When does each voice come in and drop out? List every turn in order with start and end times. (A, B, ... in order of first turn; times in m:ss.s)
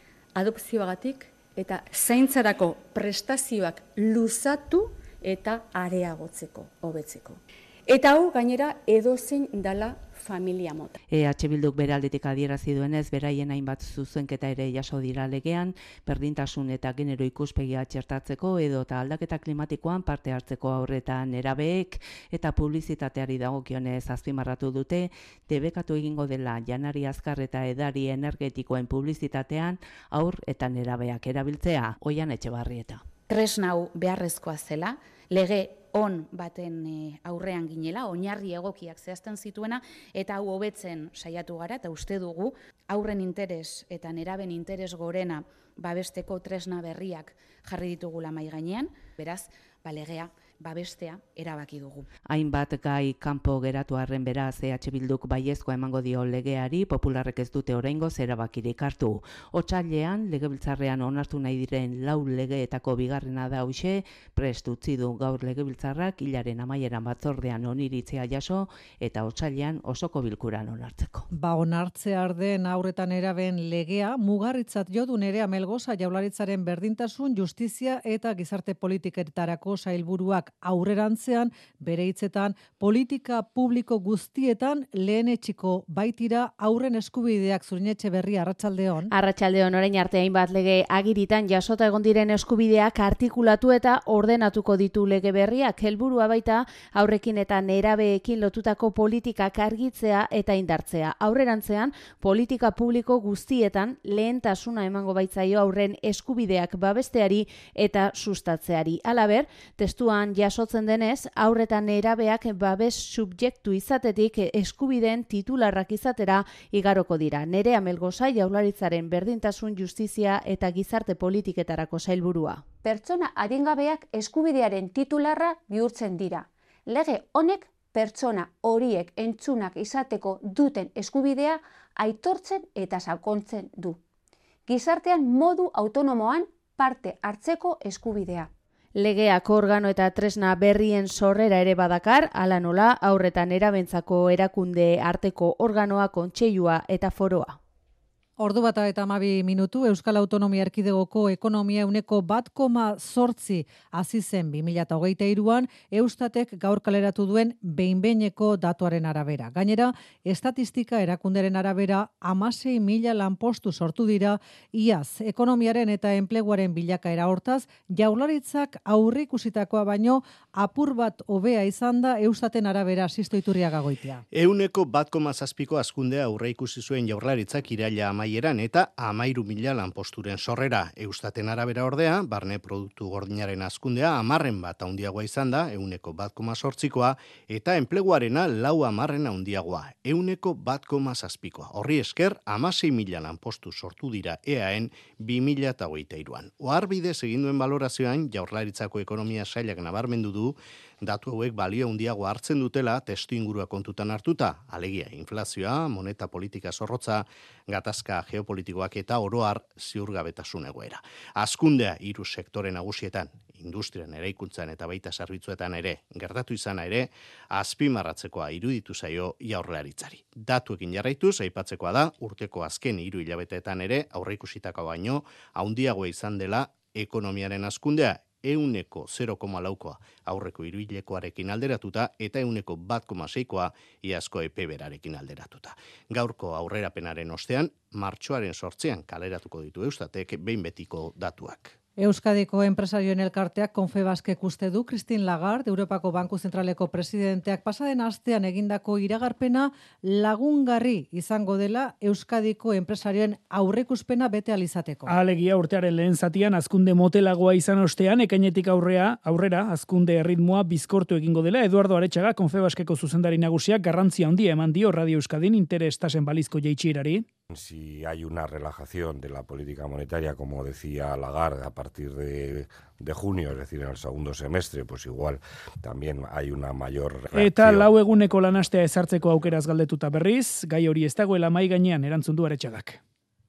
0:00.4-0:11.0 A
0:11.1-0:33.0 B
0:33.3-0:52.1 C
0:52.3-1:11.3 B
1:11.3-1:29.1 D
1:29.1-2:02.7 E
2:02.8-2:14.0 F
2:14.7-2:18.5 F
2:19.0-2:27.6 E
2:28.4-2:54.2 D
2:54.3-4:01.8 G
4:02.0-4:15.1 D
4:15.1-4:27.3 H
4:27.5-4:37.9 I
4:37.3-4:43.0 H